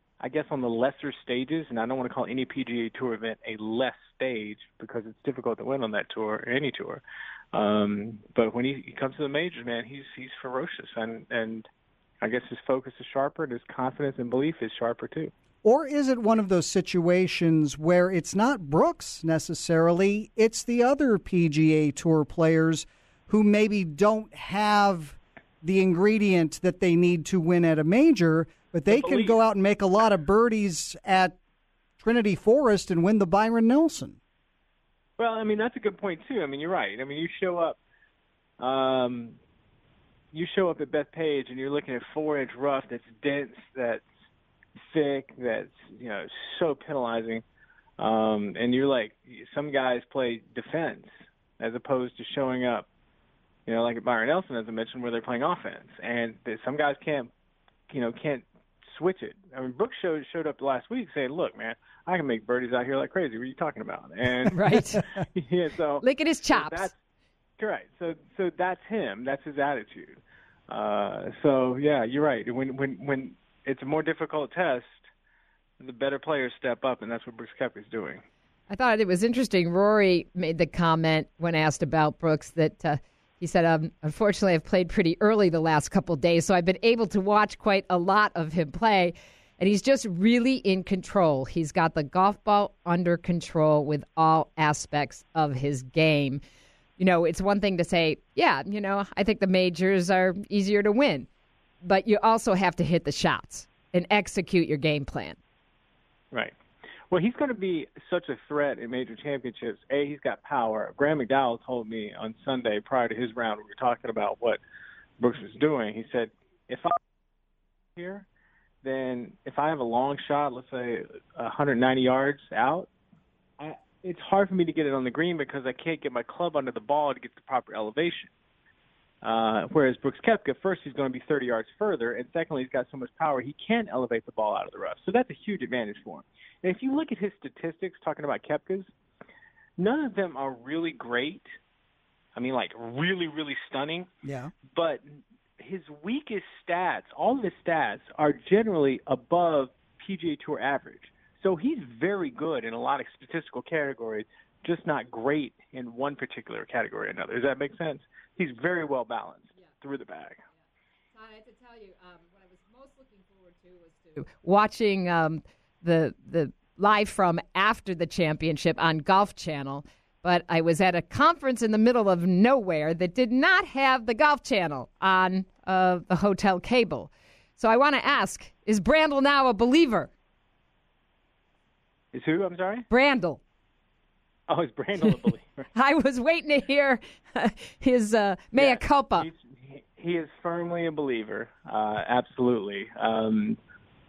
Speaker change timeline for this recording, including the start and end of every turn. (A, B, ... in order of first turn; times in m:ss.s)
0:00.2-0:07.0 A
0:07.5-0:11.7 A
0:12.2-0:15.3 A
0:15.6-0:31.4 B
0:28.9-0:29.4 A
0:32.0-0:34.2 B
0:35.2-0:37.8 A
0:38.6-0:39.4 A
0:40.3-0:44.0 A
0:44.8-0:47.4 A
0:48.0-0:52.9 A
0:53.7-0:57.3 A
0:57.9-1:07.0 A
1:04.5-1:05.0 C
1:06.0-1:06.9 C
1:07.6-1:15.1 A
1:15.8-1:18.2 A
1:18.7-1:36.4 C
1:37.0-1:41.3 C
1:41.8-1:45.4 C
1:47.1-1:54.6 A
1:55.2-1:57.0 A
1:58.0-1:58.2 A
1:58.8-2:02.9 A
2:03.6-2:08.3 A
2:09.2-2:18.9 A
2:19.8-2:21.5 A
2:22.3-2:24.1 A
2:24.2-2:24.5 B
2:24.7-2:40.4 A
2:41.1-3:00.1 C
3:02.1-3:02.8 A
3:02.9-3:03.4 C
3:04.5-3:05.6 A
3:05.7-3:09.3 C
3:08.5-3:13.6 A